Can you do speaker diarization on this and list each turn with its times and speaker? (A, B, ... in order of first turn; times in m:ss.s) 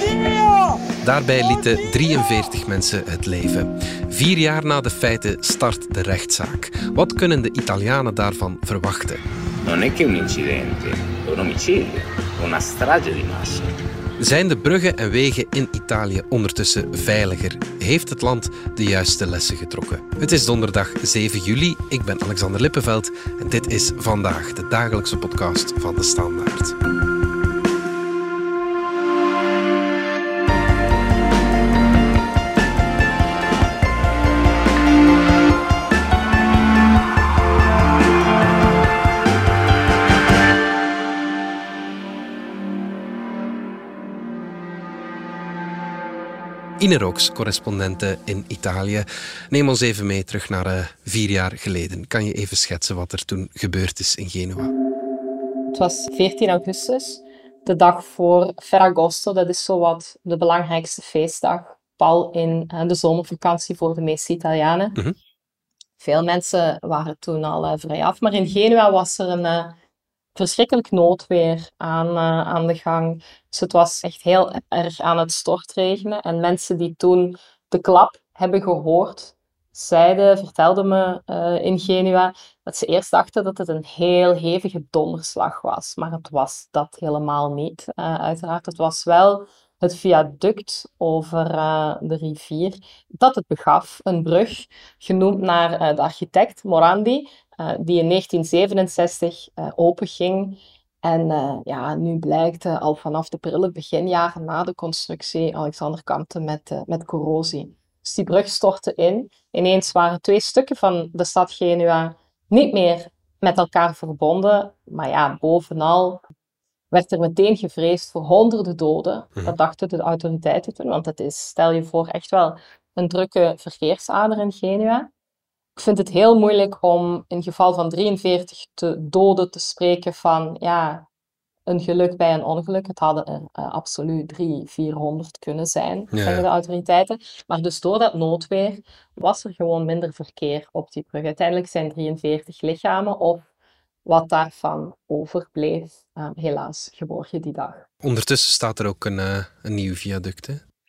0:01.0-0:09.2 A
0:09.6-0:13.7 B
0:14.2-0:26.8 A
0:46.8-0:54.7 A
0:55.7-1:05.0 C
1:06.0-1:09.8 C
1:10.3-1:56.2 C
1:56.9-2:05.1 C
2:05.8-2:11.0 C
2:11.7-2:23.4 C
2:16.1-2:16.4 A
2:24.0-2:27.8 C
2:28.0-2:30.6 A